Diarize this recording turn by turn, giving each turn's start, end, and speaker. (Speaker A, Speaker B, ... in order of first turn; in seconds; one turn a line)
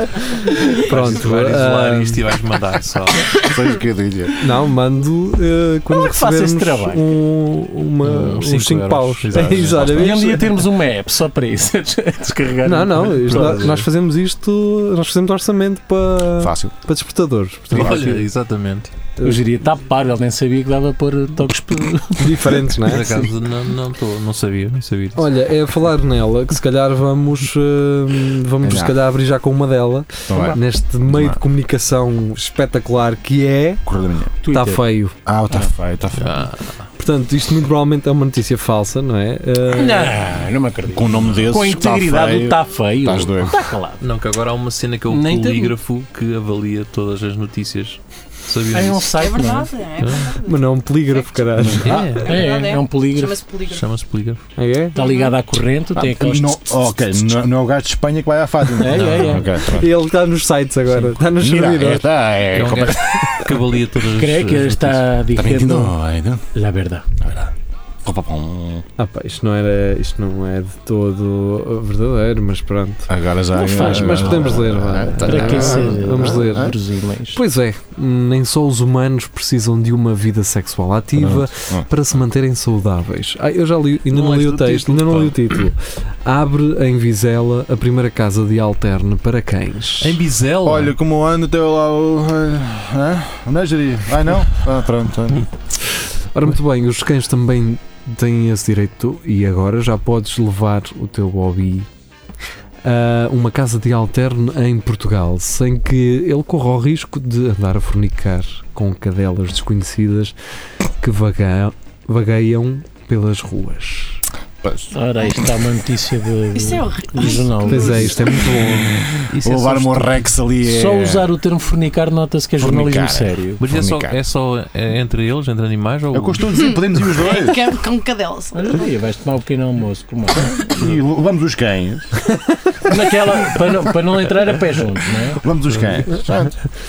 Speaker A: 0.2-2.2
Speaker B: 0.8-3.3
Speaker C: 3.3-4.4
Speaker A: 4.4-10.5
Speaker D: 5.9-7.1
Speaker B: 8.0-10.1
Speaker C: 9.3-10.1
Speaker D: 9.9-13.8
Speaker A: 12.6-18.3
Speaker B: 13.2-13.8
Speaker C: 16.4-16.7
Speaker B: 17.7-18.9
Speaker A: 19.1-19.4
Speaker D: 19.2-22.4
Speaker C: 21.5-21.8
Speaker A: 22.2-23.1
Speaker B: 22.8-25.2
Speaker A: 25.1-33.9
Speaker C: 28.6-28.9
Speaker C: 30.3-31.4
Speaker C: 33.8-34.3
Speaker D: 34.4-34.8
Speaker A: 34.5-35.1
Speaker C: 35.2-36.5
Speaker B: 36.1-36.8
Speaker A: 37.0-40.2
Speaker D: 39.7-44.0
Speaker C: 40.9-43.7
Speaker B: 44.0-49.1
Speaker D: 45.1-45.7
Speaker D: 48.7-49.7
Speaker E: 49.1-53.9
Speaker B: 50.0-50.4
Speaker A: 50.5-52.0
Speaker C: 51.6-52.0
Speaker B: 51.8-52.4
Speaker D: 52.3-53.3
Speaker B: 53.7-54.4
Speaker A: 54.5-55.0
Speaker E: 54.9-55.4
Speaker D: 54.9-56.7
Speaker C: 55.9-59.9
Speaker D: 58.8-59.5
Speaker B: 58.9-59.4
Speaker A: 59.6-62.1
Speaker C: 61.4-63.3
Speaker B: 62.5-65.1
Speaker D: 64.2-65.9
Speaker C: 65.3-66.4
Speaker D: 66.5-67.0
Speaker C: 67.2-67.5
Speaker C: 68.0-68.8
Speaker A: 69.0-73.1
Speaker C: 73.1-76.7
Speaker D: 73.5-74.4
Speaker A: 73.7-76.7
Speaker D: 75.2-77.4
Speaker A: 77.3-90.2
Speaker C: 81.1-81.9
Speaker B: 84.1-85.4
Speaker B: 90.0-90.9
Speaker C: 90.6-95.5
Speaker A: 96.3-101.9
Speaker A: 102.8-110.3
Speaker A: 110.9-114.2
Speaker C: 114.6-115.5
Speaker D: 114.9-118.1
Speaker E: 116.5-118.6
Speaker A: 117.7-119.0
Speaker C: 118.5-121.3
Speaker B: 119.3-120.3
Speaker D: 120.6-123.6
Speaker C: 122.6-124.2
Speaker B: 123.6-126.5
Speaker C: 126.1-127.5
Speaker E: 126.5-128.9
Speaker D: 128.5-130.6
Speaker C: 130.4-132.2
Speaker D: 132.9-135.4
Speaker C: 135.3-136.6
Speaker B: 135.7-136.2